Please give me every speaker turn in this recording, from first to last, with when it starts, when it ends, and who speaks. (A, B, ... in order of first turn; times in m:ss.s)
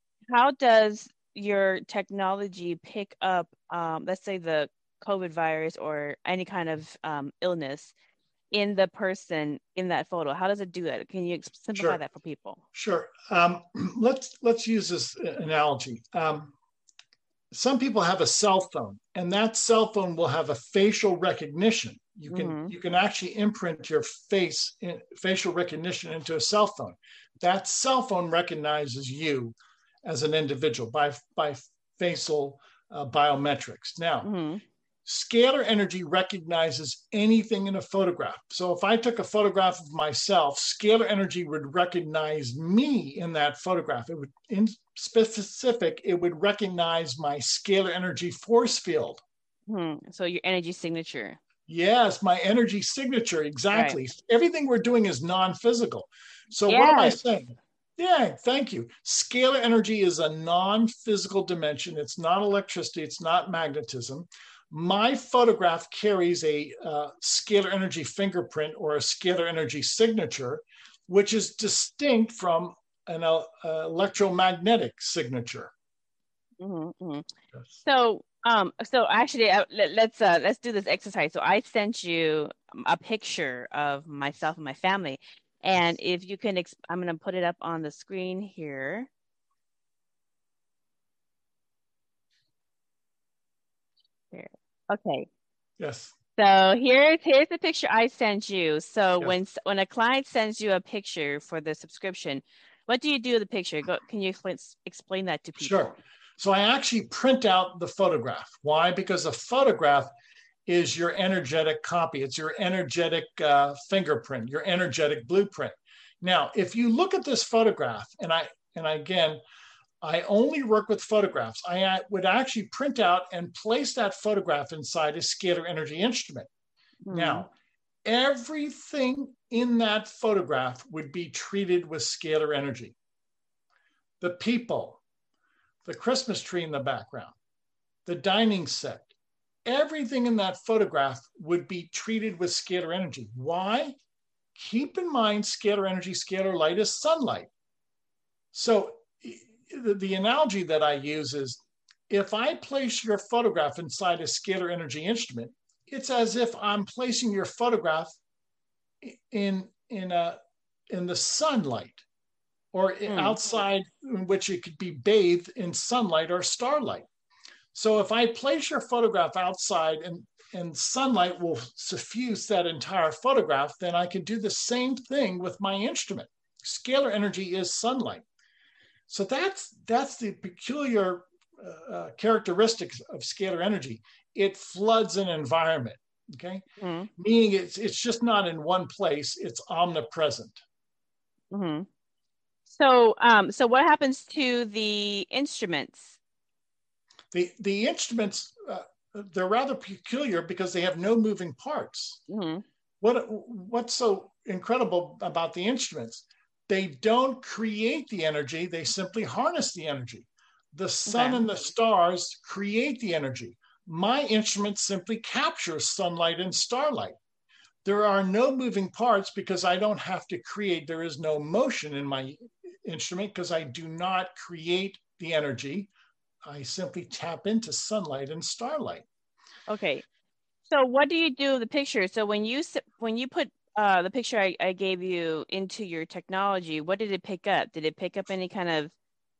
0:00.3-0:07.9 A
0:08.5-0:12.6 A
0:12.7-0:16.5 B
0:17.5-0:34.3 B
0:22.3-0:22.7 A
0:34.2-0:34.6 A
0:35.0-0:49.2 B
0:49.7-0:51.4 A
0:51.7-1:15.7 B
0:53.7-0:54.0 A
0:56.7-0:57.2 A
1:16.6-1:17.3 A
1:17.8-1:29.1 A
1:34.3-1:35.3 A
1:35.8-1:36.1 B
1:36.4-1:46.0 A
1:45.6-1:50.1 B
1:50.6-1:59.4 B
2:00.0-2:06.5 B
2:07.0-2:07.5 A
2:07.1-2:07.5 B
2:08.0-2:13.0 B
2:14.2-2:15.0 B
2:15.8-2:17.4 B
2:18.0-2:19.1 B
2:19.6-2:24.0 B
2:24.5-2:27.5 B
2:28.5-2:38.2 B
2:39.0-2:40.4 B
2:40.9-2:42.0 B
2:42.7-2:47.0 B
2:43.1-2:43.4 A
2:47.7-2:58.2 B
2:59.1-3:06.6 B
3:06.8-3:07.1 A
3:07.2-3:10.6 B
3:11.5-3:11.9 A
3:12.7-3:16.2 A
3:17.3-3:22.2 B
3:22.3-3:22.6 A
3:23.0-3:37.2 B
3:31.1-3:31.4 A
3:37.8-3:45.9 B
3:46.4-3:49.0 B
3:49.7-3:50.0 A
3:50.7-3:58.9 A